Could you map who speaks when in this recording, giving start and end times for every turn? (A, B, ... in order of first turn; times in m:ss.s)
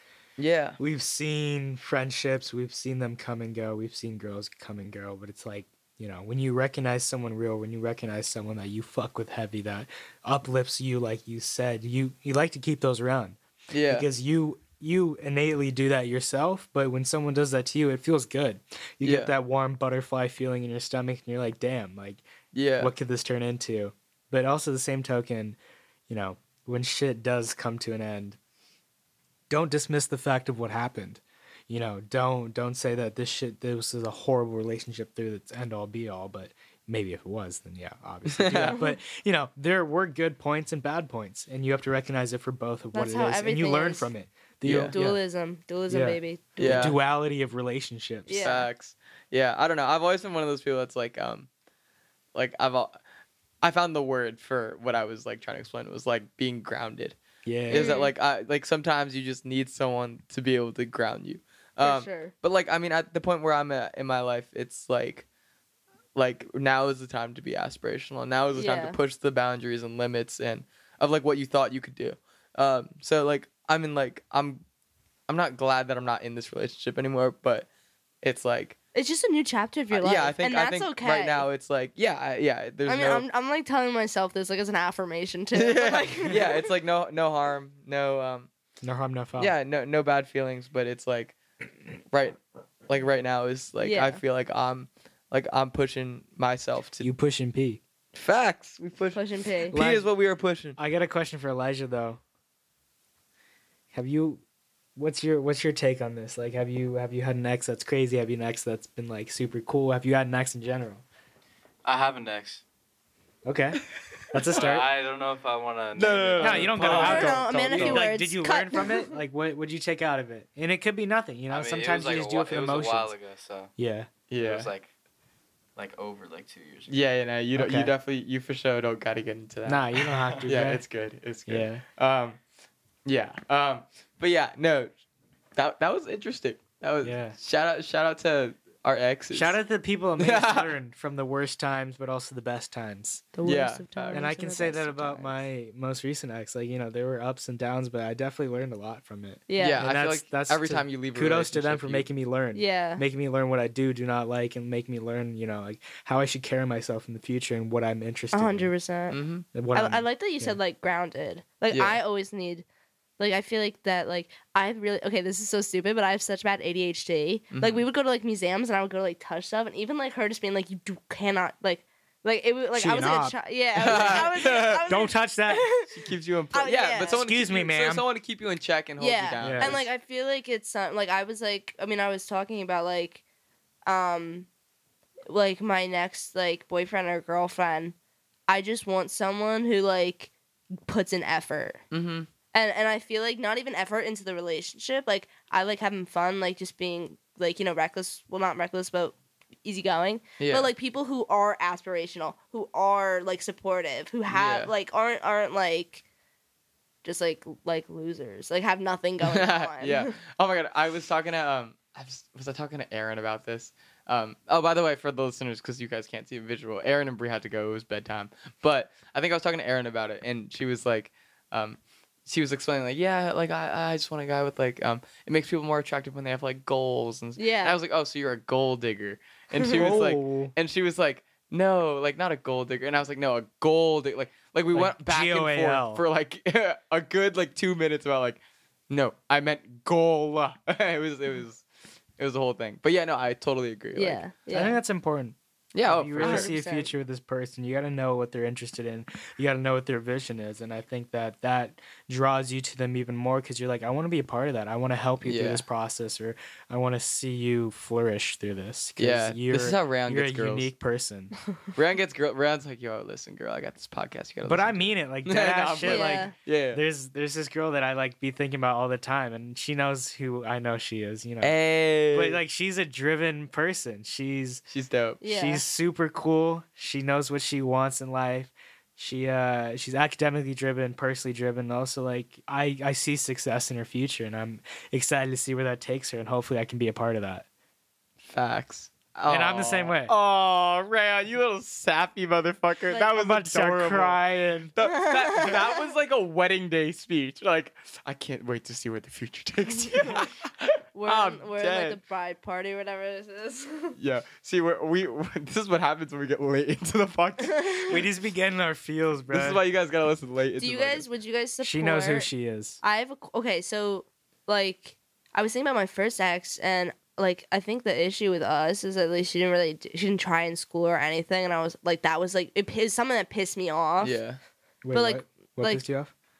0:00.4-0:00.8 A
0:00.8-0:22.2 B
0:13.7-0:14.1 A
0:19.0-0:19.3 A
0:22.5-0:22.9 A
0:22.8-0:28.4 B
0:29.5-0:45.2 B
0:38.3-0:38.8 A
0:42.9-0:44.1 C
0:44.6-0:44.9 A
0:44.9-0:46.9 C
0:45.9-0:48.5 B
0:46.6-0:47.0 A
0:48.3-0:48.7 C
0:48.3-0:51.5 A
0:52.3-0:53.0 A
0:53.6-1:05.2 A
0:57.4-0:58.0 B
0:57.7-0:58.1 C
1:01.8-1:02.3 C
1:06.1-1:14.6 A
1:08.5-1:09.0 C
1:15.3-1:17.7 A
1:18.2-1:18.8 A
1:18.9-1:21.5 C
1:19.9-1:23.2 A
1:22.8-1:26.7 C
1:25.5-1:28.5 A
1:28.8-1:29.5 B
1:29.4-1:31.4 A
1:32.1-1:37.1 A
1:33.8-1:34.2 C
1:37.0-1:37.8 B
1:38.1-1:40.8 A
1:39.1-1:39.8 C
1:39.7-1:40.1 B
1:40.8-1:42.2 B
1:43.9-1:44.4 B
1:45.0-1:51.0 B
1:51.8-1:52.6 D
1:53.4-1:54.8 B
1:54.5-1:57.4 D
1:56.0-1:58.0 A
1:56.4-2:03.1 B
1:56.8-1:59.1 C
2:01.5-2:03.7 D
2:03.8-2:04.1 B
2:04.3-2:04.7 A
2:04.4-2:04.9 D
2:05.8-2:06.9 D
2:06.9-2:12.4 A
2:07.5-2:07.9 B
2:09.6-2:10.8 B
2:11.5-2:11.8 B
2:13.0-2:14.9 A
2:15.6-2:19.6 A
2:17.0-2:17.4 B
2:19.3-2:23.3 B
2:20.2-2:20.7 A
2:23.3-2:25.4 C
2:23.4-2:24.3 A
2:24.1-2:38.7 B
2:29.5-2:29.8 C
2:29.6-2:32.1 A
2:32.5-2:33.0 C
2:38.3-2:39.2 C
2:39.1-2:39.4 A
2:39.5-2:40.6 B
2:39.7-2:42.6 C
2:41.7-2:42.0 A
2:43.2-2:56.0 C
2:47.5-2:47.8 A
2:52.7-2:55.7 B
2:53.7-2:54.8 A
2:55.9-2:59.9 A
2:56.5-2:57.2 C
2:57.2-2:58.0 B
2:59.0-3:03.2 C
2:59.4-2:59.7 B
3:03.8-3:04.5 C
3:05.3-3:07.9 C
3:08.5-3:11.8 C
3:11.9-3:12.3 A
3:12.5-3:26.0 C
3:20.4-3:20.7 A
3:24.3-3:24.7 A
3:27.0-3:30.1 C
3:29.2-4:01.6 A
3:47.4-3:47.8 C
3:49.7-3:50.5 B
3:54.7-3:56.0 B
4:02.2-4:04.2 A
4:03.9-4:04.8 C
4:04.5-4:21.3 B
4:05.7-4:06.6 A
4:06.2-4:06.9 C
4:15.2-4:15.6 A
4:19.0-4:20.7 A
4:21.7-4:26.8 A
4:24.4-4:31.5 B
4:25.8-4:26.3 C
4:31.4-4:32.4 A
4:32.1-4:34.6 B
4:34.7-4:35.2 A
4:35.2-4:35.6 C
4:35.2-4:47.4 B
4:48.2-4:54.2 A
4:49.3-4:50.1 B
4:53.1-4:54.7 B
4:54.7-5:02.0 A
4:55.1-4:55.7 C
5:00.9-5:03.9 C
5:04.0-5:07.8 A
5:07.5-5:08.0 C
5:07.9-5:09.6 B
5:09.3-5:11.0 A
5:10.6-5:12.3 C
5:11.6-5:12.8 B
5:12.8-5:24.2 C
5:24.0-5:24.4 A
5:24.8-5:26.1 B
5:24.9-5:25.8 C